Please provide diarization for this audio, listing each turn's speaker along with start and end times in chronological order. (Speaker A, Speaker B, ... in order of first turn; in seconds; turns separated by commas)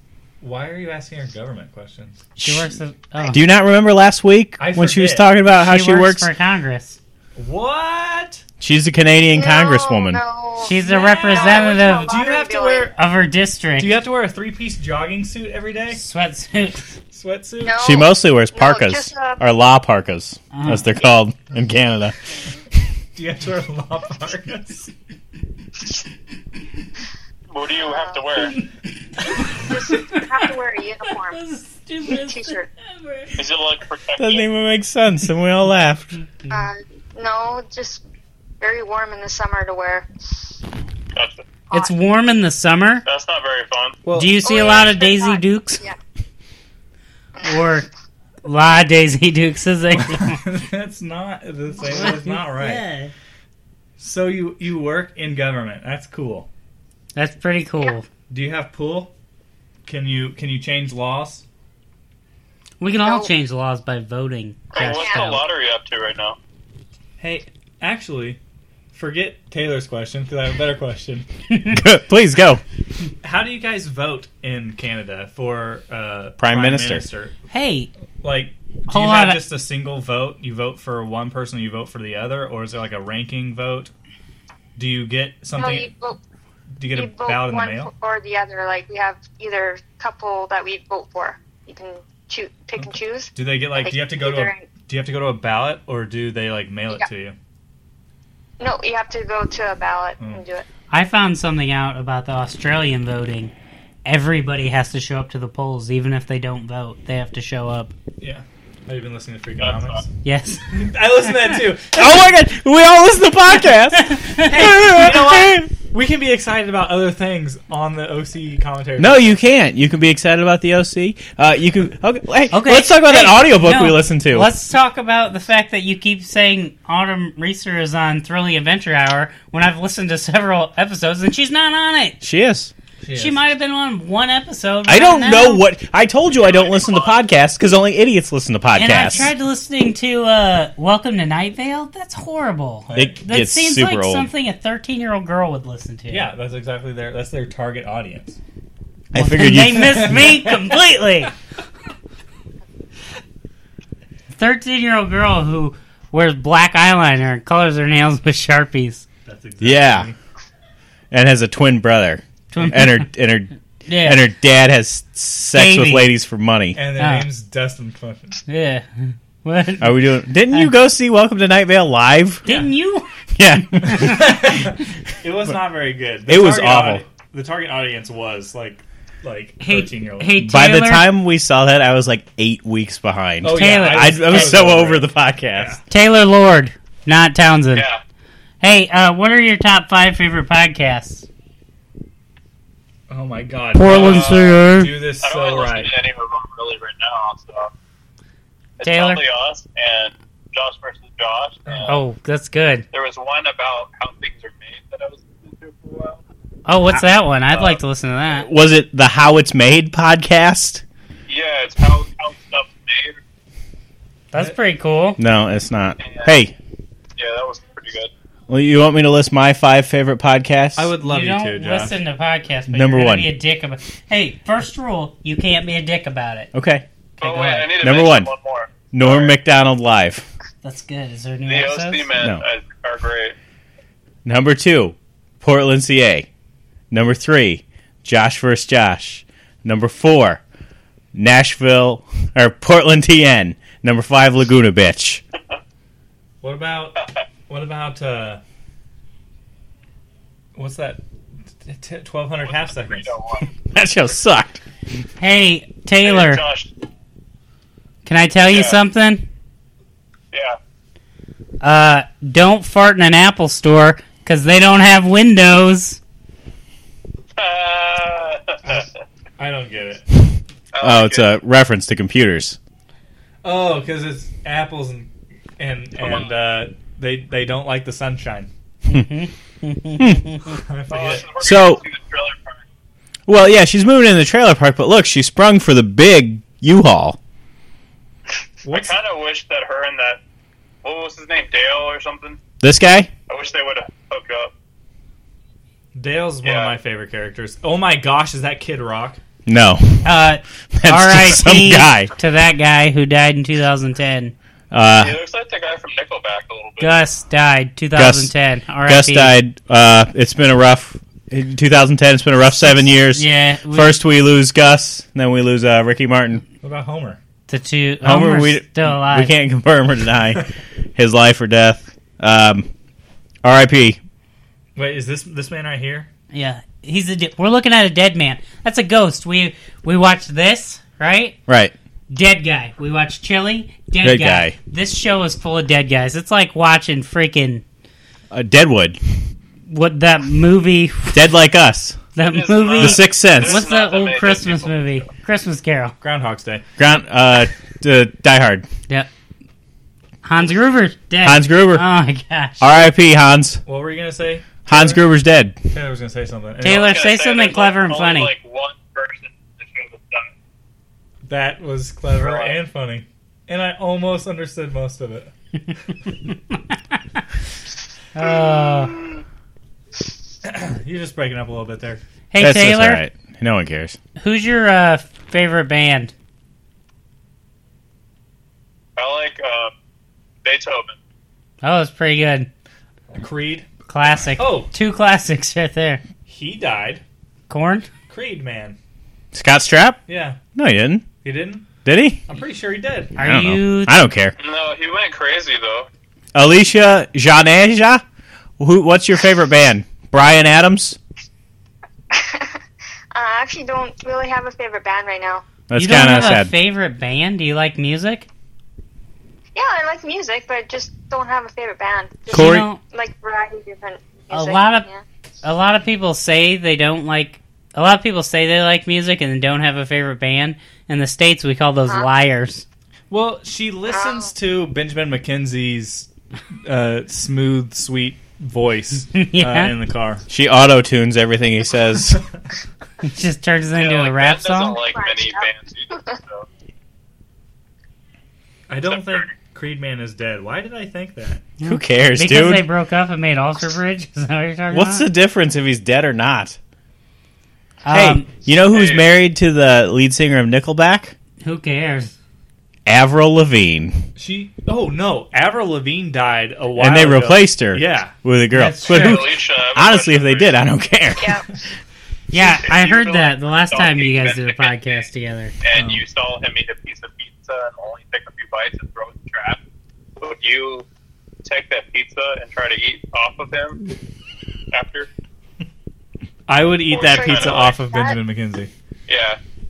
Speaker A: 0.4-2.3, Speaker B: 2.4-3.4, Speaker C: 3.3-6.3, Speaker A: 4.6-5.3, Speaker B: 5.6-7.0, Speaker A: 7.4-8.4, Speaker C: 8.6-10.2, Speaker D: 9.3-12.9, Speaker B: 10.6-12.2, Speaker A: 10.7-12.9, Speaker B: 12.9-14.0, Speaker A: 13.8-16.0, Speaker B: 15.9-17.0, Speaker A: 17.1-17.8, Speaker D: 17.6-19.4, Speaker C: 17.8-22.2, Speaker B: 20.5-20.9, Speaker A: 23.1-24.9, Speaker E: 27.5-28.6, Speaker D: 27.8-28.5, Speaker B: 29.3-30.5, Speaker D: 29.5-31.4, Speaker B: 31.0-33.4, Speaker D: 32.1-32.7, Speaker E: 33.4-34.5, Speaker C: 34.2-36.1, Speaker D: 36.5-38.0, Speaker D: 38.6-40.1, Speaker E: 41.1-41.5, Speaker B: 41.7-43.0, Speaker E: 43.1-44.0, Speaker A: 44.0-44.4, Speaker B: 44.1-45.8, Speaker D: 44.4-46.0, Speaker B: 47.4-47.9, Speaker B: 48.4-50.4, Speaker A: 50.0-52.8, Speaker B: 51.9-53.1, Speaker A: 54.0-56.5, Speaker B: 57.1-58.1, Speaker A: 58.3-59.1, Speaker A: 59.9-61.5, Speaker B: 62.8-65.4, Speaker D: 63.0-63.3, Speaker E: 64.7-66.4, Speaker D: 64.8-65.3, Speaker A: 67.2-68.4, Speaker A: 68.9-71.3, Speaker C: 71.7-72.6, Speaker A: 73.2-77.3, Speaker C: 76.4-77.0, Speaker B: 77.5-77.9, Speaker A: 78.2-83.9, Speaker B: 78.9-79.4, Speaker A: 84.8-85.9, Speaker D: 85.5-86.2, Speaker A: 86.8-87.9, Speaker D: 86.9-94.7, Speaker A: 92.8-97.4, Speaker D: 98.6-100.7, Speaker B: 100.9-103.5, Speaker B: 104.0-107.9, Speaker A: 108.2-110.1, Speaker E: 109.6-110.0, Speaker B: 110.2-110.9, Speaker A: 110.7-112.3, Speaker C: 111.9-115.7, Speaker B: 113.9-114.8, Speaker A: 114.7-119.4, Speaker C: 119.0-124.5, Speaker B: 122.5-132.2, Speaker C: 132.2-132.7, Speaker A: 133.0-133.4, Speaker B: 133.1-135.7, Speaker C: 134.9-139.3, Speaker E: 136.3-137.2, Speaker B: 138.7-146.3, Speaker A: 142.9-143.2, Speaker C: 142.9-144.3, Speaker A: 146.1-148.4, Speaker C: 149.1-150.3, Speaker B: 149.2-151.3, Speaker A: 149.8-150.8, Speaker B: 154.3-159.1, Speaker A: 159.3-160.2, Speaker C: 159.6-160.1, Speaker C: 161.1-166.8, Speaker B: 162.5-163.1, Speaker B: 163.9-164.2, Speaker B: 165.5-166.1, Speaker A: 166.7-168.4, Speaker B: 167.0-167.3, Speaker B: 168.5-170.7, Speaker C: 169.8-172.5, Speaker B: 172.4-174.4, Speaker C: 173.4-174.4, Speaker A: 173.9-180.4, Speaker C: 176.3-177.1, Speaker B: 179.6-181.1, Speaker C: 180.4-185.8, Speaker A: 183.4-185.8, Speaker B: 183.5-184.3, Speaker B: 185.9-187.9, Speaker E: 187.7-188.0, Speaker B: 188.6-191.3, Speaker A: 193.1-195.9, Speaker B: 193.7-195.0, Speaker E: 193.9-194.3, Speaker E: 195.2-197.7, Speaker E: 198.8-201.9, Speaker B: 198.8-199.2, Speaker A: 201.7-202.0, Speaker B: 201.9-202.9, Speaker E: 202.9-206.2, Speaker B: 206.7-208.5, Speaker E: 207.5-207.8, Speaker C: 208.3-210.8, Speaker E: 211.3-213.2, Speaker B: 214.3-215.2, Speaker C: 215.2-216.5, Speaker E: 216.0-216.3, Speaker E: 217.2-218.1, Speaker C: 218.5-220.9, Speaker A: 220.8-222.0, Speaker B: 221.0-226.5, Speaker C: 222.7-223.3, Speaker C: 226.5-226.8, Speaker B: 227.2-227.7, Speaker E: 227.2-229.3, Speaker C: 227.8-228.3, Speaker C: 228.9-230.3, Speaker B: 230.6-232.1, Speaker E: 231.5-233.4, Speaker C: 232.2-232.4, Speaker C: 234.2-236.3, Speaker C: 236.9-240.4, Speaker C: 241.1-245.2, Speaker A: 246.4-248.4, Speaker A: 250.6-251.0, Speaker A: 251.6-253.2, Speaker E: 252.4-253.5, Speaker C: 253.7-254.6, Speaker B: 255.2-256.4, Speaker E: 256.0-256.7, Speaker B: 258.1-259.2, Speaker E: 258.5-258.8, Speaker E: 260.3-260.6, Speaker B: 261.6-266.0, Speaker E: 267.4-268.9, Speaker A: 269.4-270.2, Speaker E: 270.7-271.3, Speaker C: 270.8-272.6, Speaker A: 273.4-278.5, Speaker E: 276.0-276.3, Speaker B: 278.9-280.6, Speaker C: 280.0-280.3, Speaker A: 280.6-281.4, Speaker E: 280.9-282.6, Speaker C: 281.4-281.8, Speaker C: 283.3-287.2, Speaker A: 288.6-289.0, Speaker E: 288.7-290.2, Speaker E: 290.8-292.4, Speaker C: 292.6-293.1, Speaker E: 293.3-294.5, Speaker A: 295.9-299.2, Speaker E: 296.4-296.8, Speaker C: 299.5-300.2, Speaker B: 300.0-304.3, Speaker C: 300.7-302.1, Speaker C: 304.7-305.2, Speaker E: 305.0-307.0, Speaker B: 306.8-309.4, Speaker C: 307.9-308.3, Speaker C: 308.8-316.4, Speaker B: 313.1-314.0, Speaker A: 316.6-317.2, Speaker B: 317.5-319.3, Speaker C: 318.0-322.7, Speaker C: 323.4-324.0, Speaker A: 324.8-326.1, Speaker B: 326.3-331.4, Speaker C: 331.5-331.7, Speaker B: 332.1-337.6, Speaker C: 334.0-334.6, Speaker C: 338.3-339.0, Speaker B: 339.7-341.2, Speaker C: 341.1-342.0, Speaker B: 342.2-345.9, Speaker E: 342.2-345.0, Speaker C: 342.8-343.6, Speaker A: 346.0-346.6, Speaker C: 346.8-348.7, Speaker B: 350.2-352.8, Speaker C: 351.2-351.9, Speaker C: 352.6-353.6, Speaker A: 353.6-355.1, Speaker C: 354.7-355.6, Speaker A: 355.7-357.0, Speaker B: 356.6-358.3, Speaker E: 356.6-360.3, Speaker A: 361.3-365.3, Speaker E: 362.1-362.6, Speaker B: 366.3-367.2, Speaker B: 368.1-369.0, Speaker E: 368.2-369.2, Speaker A: 370.4-372.0, Speaker B: 372.3-373.0, Speaker C: 372.4-374.0, Speaker B: 374.2-376.1, Speaker E: 379.0-379.7, Speaker E: 380.4-381.0, Speaker B: 381.6-382.5, Speaker A: 383.1-383.7, Speaker B: 383.9-386.0, Speaker A: 384.4-384.7, Speaker A: 386.3-387.0, Speaker B: 387.5-387.9, Speaker A: 388.1-388.8, Speaker C: 389.3-390.0, Speaker A: 390.1-390.4, Speaker C: 390.6-391.1, Speaker A: 391.2-391.7, Speaker C: 391.9-392.2, Speaker A: 392.3-393.1, Speaker B: 393.2-394.0, Speaker C: 393.2-394.3, Speaker E: 394.4-395.9, Speaker C: 396.3-398.0, Speaker C: 398.6-401.0, Speaker D: 402.1-402.6, Speaker D: 403.1-405.5, Speaker C: 405.7-406.5, Speaker B: 405.8-408.3, Speaker D: 409.6-415.0, Speaker B: 412.3-412.8, Speaker C: 412.3-412.7, Speaker B: 414.3-414.9, Speaker B: 415.4-422.6, Speaker A: 423.1-426.1, Speaker D: 423.9-424.3, Speaker A: 426.6-430.2, Speaker B: 429.1-429.7, Speaker C: 430.3-432.2, Speaker B: 433.0-434.8, Speaker E: 433.8-436.5, Speaker D: 434.9-436.1, Speaker A: 438.7-441.5, Speaker E: 438.9-439.3, Speaker B: 441.6-445.1, Speaker C: 441.6-442.7, Speaker C: 444.7-446.6, Speaker B: 447.8-448.3, Speaker C: 447.9-451.1, Speaker E: 448.7-449.1, Speaker B: 451.4-452.1, Speaker C: 452.9-454.1, Speaker A: 454.2-458.2, Speaker C: 456.8-461.4, Speaker B: 458.5-459.2, Speaker E: 458.9-460.6, Speaker D: 461.2-461.5, Speaker B: 462.3-465.5, Speaker E: 462.3-465.0, Speaker E: 465.6-469.6, Speaker A: 465.7-466.0, Speaker E: 470.2-470.9, Speaker E: 471.4-473.8, Speaker E: 474.7-475.1, Speaker A: 476.5-478.7, Speaker E: 476.9-477.8, Speaker D: 476.9-478.2, Speaker E: 479.1-479.4